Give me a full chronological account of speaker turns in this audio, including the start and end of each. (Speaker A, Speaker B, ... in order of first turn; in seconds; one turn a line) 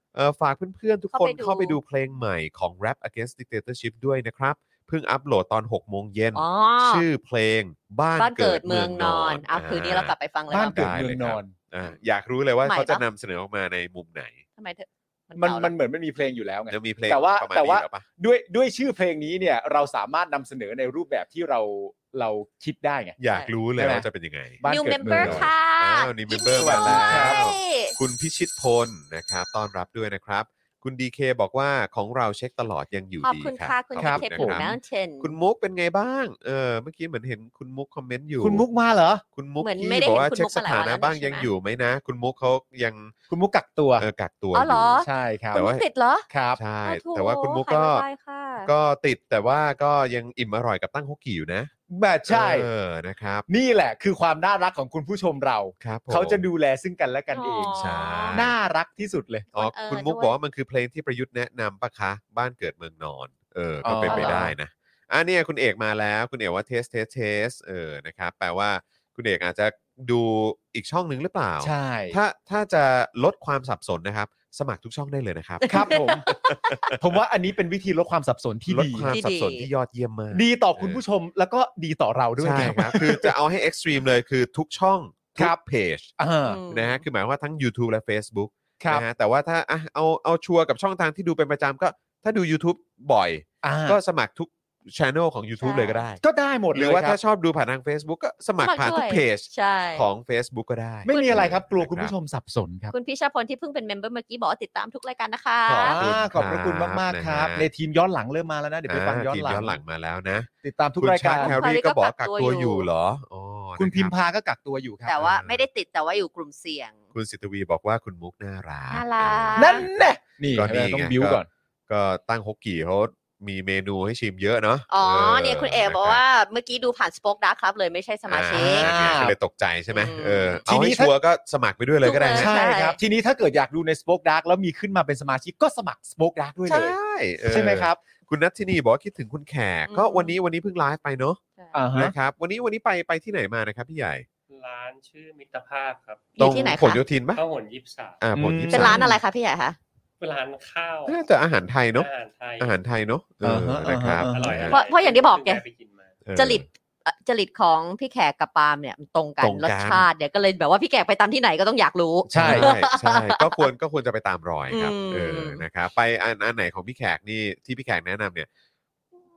Speaker A: 0.1-10.1
Speaker B: 1.1-1.8
Speaker B: 6.3-7.0
Speaker B: 8.2-10.8
Speaker C: 10.5-11.6
Speaker A: 10.7-14.4
Speaker B: 12.7-13.0
Speaker B: 14.6-15.7
Speaker C: 15.3-23.2
Speaker A: 16.7-18.0
Speaker A: 23.2-38.6
Speaker C: 23.8-24.1
Speaker C: 24.6-25.5
Speaker B: 24.6-28.0
Speaker C: 26.6-27.4
Speaker B: 33.2-35.3
Speaker C: 34.0-34.6
Speaker C: 38.4-39.2
Speaker A: 39.4-43.1
Speaker B: 39.6-41.5
Speaker C: 43.3-44.0
Speaker A: 44.0-44.9
Speaker B: 44.5-46.2
Speaker C: 45.0-45.6
Speaker A: 45.5-45.8
Speaker C: 46.3-46.6
Speaker A: 46.5-48.0
Speaker B: 46.9-48.7
Speaker A: 48.6-51.7
Speaker C: 51.9-52.7
Speaker A: 52.3-53.5
Speaker C: 53.5-57.8
Speaker A: 55.8-56.4
Speaker B: 57.3-58.5
Speaker A: 57.7-58.5
Speaker C: 58.3-59.5
Speaker B: 59.5-60.3
Speaker A: 59.5-77.0
Speaker C: 63.8-64.5
Speaker B: 64.0-64.5
Speaker C: 71.6-72.2
Speaker B: 75.6-76.8
Speaker C: 75.7-76.2
Speaker C: 77.0-79.1
Speaker A: 78.7-81.0
Speaker B: 79.1-79.7
Speaker C: 80.3-83.3
Speaker A: 82.4-86.1
Speaker C: 86.2-86.6
Speaker B: 86.5-87.0
Speaker A: 86.7-96.2
Speaker C: 88.8-89.0
Speaker C: 93.6-94.0
Speaker B: 95.6-96.0
Speaker C: 96.2-97.2
Speaker A: 96.7-102.1
Speaker B: 98.6-100.1
Speaker C: 101.0-102.9
Speaker B: 101.1-101.5
Speaker B: 102.9-106.0
Speaker A: 105.6-107.7
Speaker C: 105.8-109.8
Speaker A: 108.9-114.1
Speaker C: 110.6-111.6
Speaker B: 111.4-112.9
Speaker C: 113.8-115.2
Speaker B: 115.0-117.0
Speaker A: 115.2-115.6
Speaker A: 117.1-119.9
Speaker B: 118.9-119.9
Speaker C: 119.6-121.5
Speaker A: 120.5-126.2
Speaker B: 124.9-128.9
Speaker A: 128.3-132.5
Speaker C: 128.5-129.3
Speaker B: 129.9-130.6
Speaker C: 130.7-131.1
Speaker B: 132.0-133.0
Speaker C: 132.4-138.0
Speaker A: 136.7-141.4
Speaker B: 139.9-140.3
Speaker C: 141.7-142.1
Speaker A: 141.9-144.2
Speaker D: 144.5-146.8
Speaker B: 146.4-147.0
Speaker A: 146.4-147.4
Speaker D: 147.3-148.2
Speaker A: 148.2-149.1
Speaker C: 148.3-149.2
Speaker B: 148.7-149.8
Speaker D: 150.2-151.2
Speaker A: 151.1-152.1
Speaker D: 151.9-152.7
Speaker A: 152.6-154.8
Speaker C: 153.4-154.6
Speaker D: 154.3-156.2
Speaker B: 154.7-155.6
Speaker A: 156.2-156.7
Speaker B: 156.3-163.7
Speaker A: 159.4-160.1
Speaker A: 162.3-168.5
Speaker C: 162.3-162.7
Speaker B: 164.7-165.6